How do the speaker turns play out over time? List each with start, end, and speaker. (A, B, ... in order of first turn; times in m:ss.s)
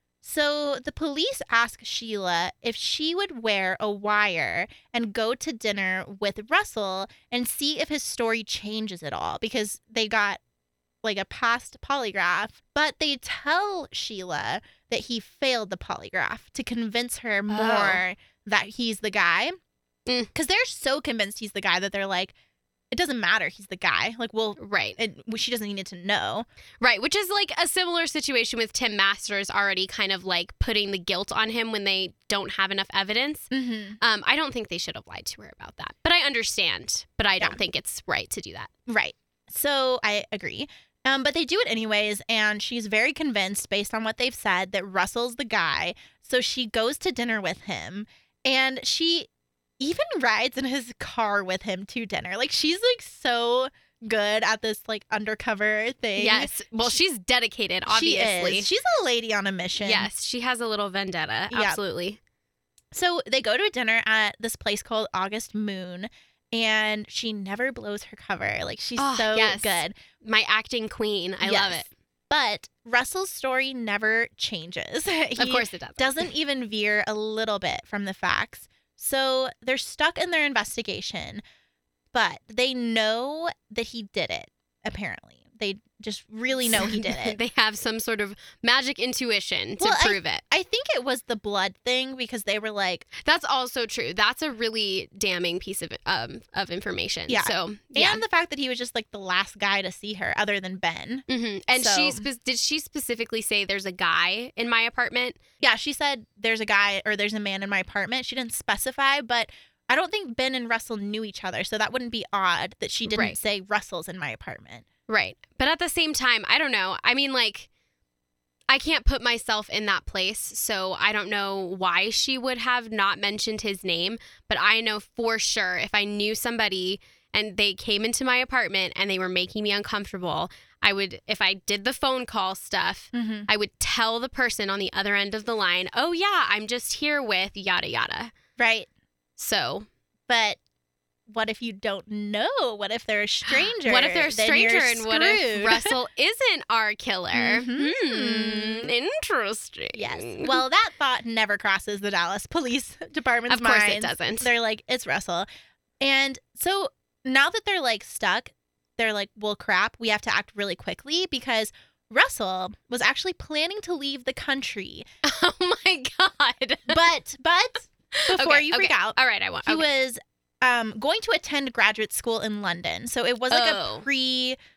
0:00.2-0:10.4 A
0:11.0-0:19.5 A
0:17.5-0:18.0 B
0:20.3-0:22.3 A
0:22.9-0:26.4 A
0:24.6-0:25.0 B
0:26.8-0:33.5 B
0:33.5-0:34.0 A
0:34.0-0:38.7 B
0:38.9-0:49.3 A
0:49.8-0:57.0 A
0:56.2-0:58.7 B
0:57.9-1:00.1 A
0:59.8-1:02.2 B
1:01.5-1:01.8 A
1:02.9-1:09.9 A
1:09.0-1:11.9 B
1:11.4-1:21.4 A
1:15.4-1:16.3 B
1:22.1-1:27.4 A
1:26.7-1:30.4 B
1:29.8-1:33.1 A
1:33.2-1:38.2 B
1:37.3-1:42.3 A
1:41.3-1:45.4 B
1:45.6-1:54.8 A
1:53.0-1:53.4 B
1:55.1-1:57.7 B
1:58.7-2:18.3 B
2:13.1-2:13.5 A
2:18.6-2:18.9 A
2:19.4-2:19.9 B
2:20.3-2:20.6 A
2:21.3-2:25.9 A
2:23.4-2:30.6 B
2:27.3-2:28.9 A
2:29.9-2:35.5 A
2:33.5-2:34.5 B
2:36.0-2:45.0 A
2:45.2-2:47.0 B
2:46.9-2:54.6 A
2:48.1-2:49.9 B
2:53.5-2:54.0 B